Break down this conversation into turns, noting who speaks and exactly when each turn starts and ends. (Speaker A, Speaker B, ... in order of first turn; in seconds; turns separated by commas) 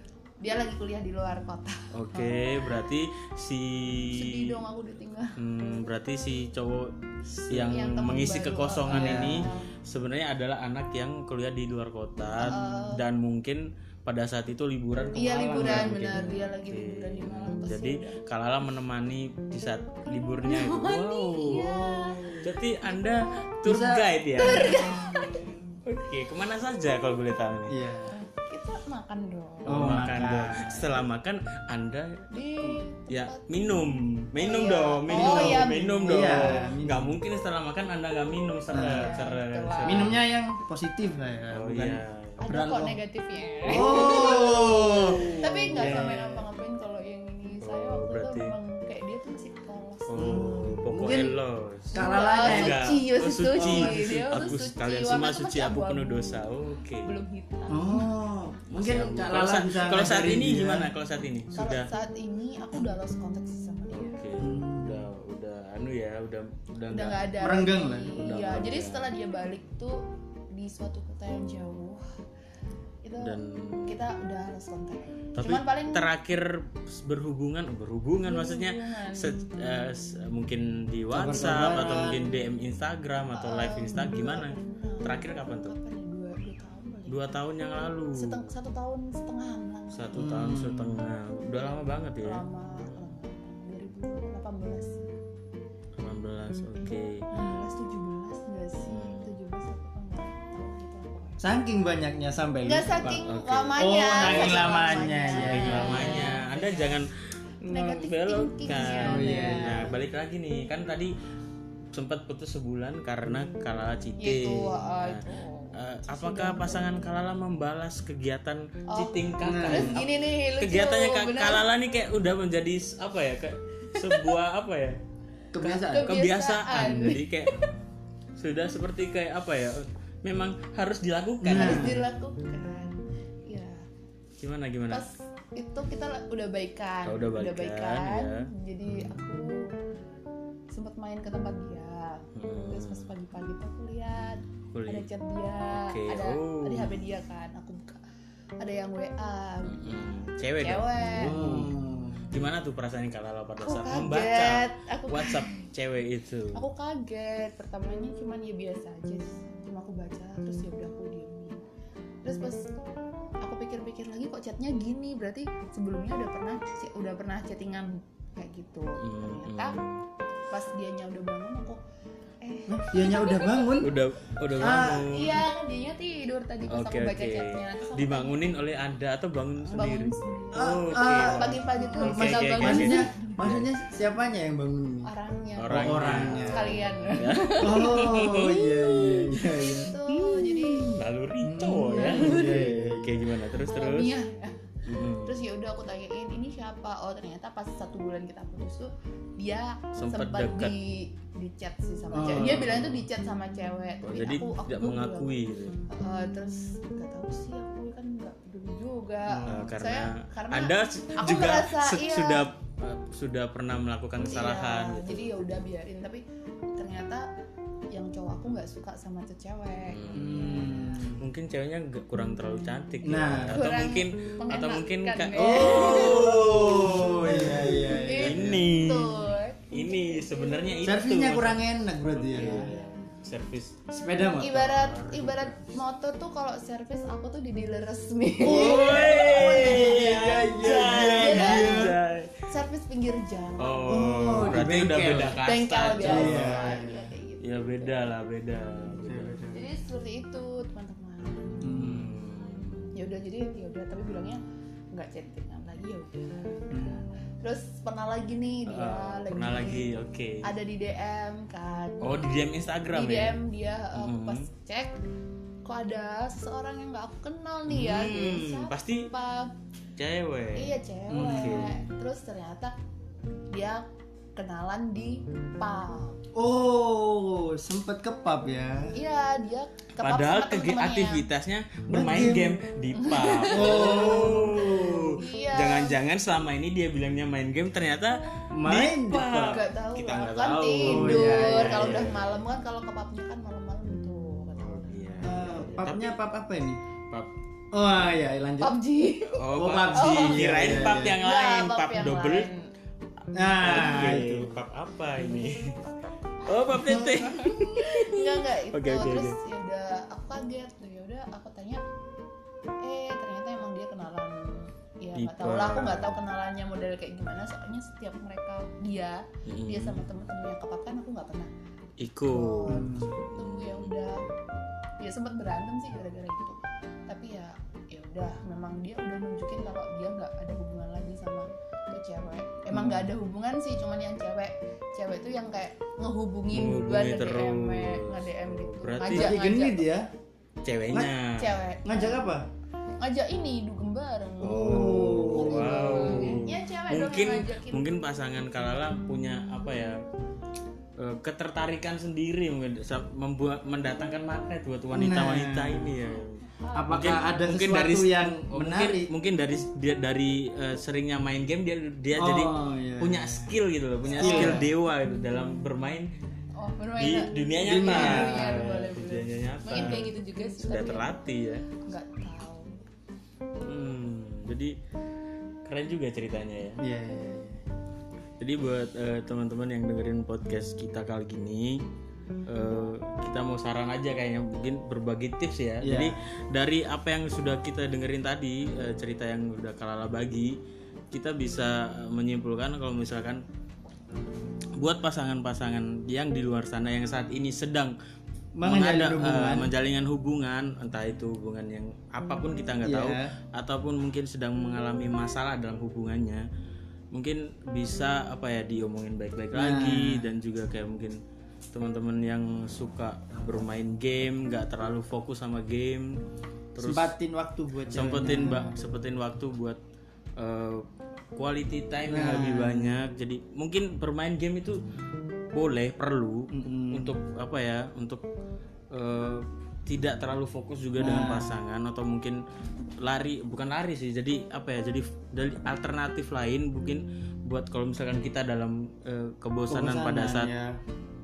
Speaker A: 0.4-2.5, Speaker B: 1.9-4.5, Speaker A: 4.1-5.4, Speaker B: 5.4-21.7, Speaker A: 7.5-9.7, Speaker C: 8.9-9.5, Speaker A: 12.4-13.1, Speaker A: 15.1-18.2, Speaker C: 15.4-16.2, Speaker A: 20.4-22.4, Speaker C: 21.5-22.5, Speaker B: 22.4-25.1, Speaker C: 23.6-24.9, Speaker A: 24.4-25.6, Speaker B: 25.8-27.8, Speaker C: 27.7-28.1, Speaker A: 28.1-29.9, Speaker B: 29.6-40.2, Speaker C: 29.7-30.9, Speaker A: 32.3-33.8, Speaker A: 34.4-36.6, Speaker C: 35.1-37.2, Speaker C: 38.7-39.2, Speaker A: 38.7-40.1, Speaker C: 39.8-43.0, Speaker B: 41.5-42.4, Speaker A: 42.4-50.5, Speaker C: 43.6-46.4, Speaker B: 43.8-46.1, Speaker B: 47.6-48.5, Speaker B: 50.1-57.1, Speaker C: 50.2-51.3, Speaker C: 51.9-52.9, Speaker A: 51.9-56.4, Speaker C: 53.5-54.2, Speaker A: 57.0-58.1, Speaker C: 57.7-60.9, Speaker B: 58.7-61.9, Speaker A: 61.5-64.2, Speaker B: 63.9-67.2, Speaker C: 64.4-65.0, Speaker A: 66.9-72.0, Speaker C: 67.4-68.2, Speaker B: 68.1-69.1, Speaker A: 73.0-76.1, Speaker B: 73.2-74.0, Speaker B: 75.3-85.7, Speaker A: 78.2-79.4, Speaker C: 81.1-82.3, Speaker A: 83.3-87.2, Speaker B: 87.1-88.5, Speaker A: 88.2-90.3, Speaker B: 89.9-92.4, Speaker C: 90.2-91.0, Speaker A: 91.6-95.1, Speaker B: 96.0-97.2, Speaker A: 96.8-101.4, Speaker B: 98.8-99.3, Speaker C: 101.4-103.2, Speaker A: 102.6-107.0, Speaker B: 103.1-107.1, Speaker C: 103.7-106.3, Speaker B: 107.6-111.1, Speaker A: 107.7-109.9, Speaker C: 109.0-109.9, Speaker B: 111.9-125.0, Speaker A: 114.2-117.0, Speaker A: 118.9-121.6, Speaker C: 119.4-120.0, Speaker A: 123.9-124.3, Speaker C: 125.5-126.1, Speaker B: 125.6-127.6, Speaker A: 125.8-127.7, Speaker C: 126.7-127.2, Speaker B: 128.4-132.0, Speaker C: 131.4-132.0, Speaker A: 131.5-133.8, Speaker B: 134.4-135.1, Speaker A: 134.9-139.6, Speaker B: 137.1-138.5, Speaker A: 140.7-148.0, Speaker B: 142.3-143.1, Speaker B: 144.7-145.1, Speaker B: 145.7-146.9, Speaker A: 148.6-151.4, Speaker B: 149.6-151.7, Speaker C: 151.2-152.3, Speaker B: 152.3-156.6, Speaker A: 153.6-155.7, Speaker A: 156.5-161.6, Speaker A: 162.2-162.7, Speaker A: 163.4-169.8, Speaker B: 169.0-170.0, Speaker A: 170.5-171.8, Speaker A: 172.4-173.7, Speaker C: 172.7-174.0, Speaker B: 173.8-175.5, Speaker C: 174.6-175.2, Speaker A: 174.7-178.4, Speaker B: 176.7-183.7, Speaker A: 179.7-183.3, Speaker C: 180.5-185.1, Speaker A: 185.0-190.9, Speaker B: 185.6-194.1, Speaker C: 185.7-189.9, Speaker C: 190.8-193.3, Speaker A: 191.7-192.7, Speaker A: 193.7-194.6, Speaker B: 194.8-195.3, Speaker A: 195.2-205.3, Speaker B: 199.9-200.7, Speaker C: 202.1-202.6, Speaker B: 202.1-203.1, Speaker B: 204.0-205.8, Speaker A: 205.9-212.5, Speaker C: 209.2-209.7, Speaker B: 209.4-215.5, Speaker A: 214.3-216.2, Speaker A: 216.8-217.3, Speaker A: 217.9-221.0, Speaker B: 219.9-235.8, Speaker C: 220.1-221.2, Speaker C: 223.0-223.6, Speaker A: 223.5-227.1, Speaker C: 225.3-228.7, Speaker A: 227.9-230.8, Speaker C: 230.8-232.7, Speaker A: 232.6-232.9, Speaker C: 233.9-234.8, Speaker A: 234.4-240.2, Speaker C: 238.4-242.0, Speaker B: 238.4-242.3, Speaker A: 240.8-241.9, Speaker A: 242.5-244.6, Speaker B: 243.6-246.9, Speaker C: 243.9-245.4, Speaker A: 245.4-248.0, Speaker C: 246.0-247.0, Speaker B: 247.4-249.3, Speaker C: 249.0-249.6, Speaker A: 249.5-251.8, Speaker C: 251.6-252.2, Speaker B: 251.8-252.9, Speaker A: 252.9-259.9, Speaker C: 256.7-257.0, Speaker B: 258.6-260.4, Speaker A: 260.4-262.3, Speaker B: 262.0-263.4, Speaker A: 262.9-264.9, Speaker B: 263.9-264.4, Speaker A: 265.6-269.5, Speaker B: 267.7-269.1, Speaker B: 270.0-271.8, Speaker A: 270.6-272.7, Speaker C: 271.1-271.7, Speaker A: 273.5-276.2, Speaker C: 276.3-278.9, Speaker A: 278.9-281.3, Speaker B: 280.0-292.4, Speaker C: 281.9-282.6, Speaker A: 282.9-285.9, Speaker C: 283.4-285.2, Speaker C: 288.5-289.6, Speaker A: 289.3-295.3, Speaker C: 290.8-292.1, Speaker B: 294.6-296.2, Speaker C: 295.2-296.8, Speaker C: 297.7-298.8, Speaker A: 298.6-302.6, Speaker B: 299.4-302.5, Speaker C: 299.5-301.2, Speaker C: 303.3-304.6, Speaker B: 303.6-305.8, Speaker B: 306.4-309.4, Speaker A: 306.8-311.8, Speaker A: 312.8-321.5, Speaker B: 315.1-316.2, Speaker B: 319.4-320.0, Speaker B: 322.0-323.9, Speaker A: 322.3-324.2, Speaker C: 322.7-323.1, Speaker A: 325.0-339.9, Speaker C: 332.7-333.1, Speaker B: 336.5-339.4, Speaker C: 339.1-340.1, Speaker B: 340.6-341.6, Speaker C: 340.9-341.1, Speaker A: 341.3-342.2, Speaker C: 341.8-342.5, Speaker A: 343.0-347.9, Speaker B: 344.4-350.0, Speaker C: 344.6-346.4, Speaker B: 351.0-366.1, Speaker C: 354.9-355.9, Speaker A: 356.6-357.1, Speaker C: 356.7-359.1, Speaker C: 362.1-363.5, Speaker A: 364.1-364.6, Speaker C: 364.1-364.7, Speaker A: 366.6-371.2, Speaker B: 367.0-371.7, Speaker C: 367.6-368.7, Speaker C: 369.7-370.0, Speaker A: 371.8-372.8, Speaker B: 373.6-374.7, Speaker B: 375.6-376.8, Speaker C: 376.8-377.6, Speaker B: 378.4-381.8, Speaker B: 382.5-390.6, Speaker C: 385.8-386.2, Speaker B: 391.1-393.4, Speaker B: 394.8-397.9, Speaker C: 398.6-399.7, Speaker B: 398.6-406.4, Speaker C: 402.8-403.3, Speaker B: 407.1-411.2, Speaker C: 409.5-410.3, Speaker B: 411.7-416.2, Speaker B: 416.7-417.1, Speaker C: 416.8-418.8, Speaker B: 417.9-419.8, Speaker B: 420.4-424.8, Speaker C: 422.1-423.0, Speaker B: 425.5-428.2, Speaker C: 426.5-427.2, Speaker B: 428.9-432.4, Speaker C: 431.0-431.6, Speaker B: 433.0-440.5, Speaker C: 439.7-440.8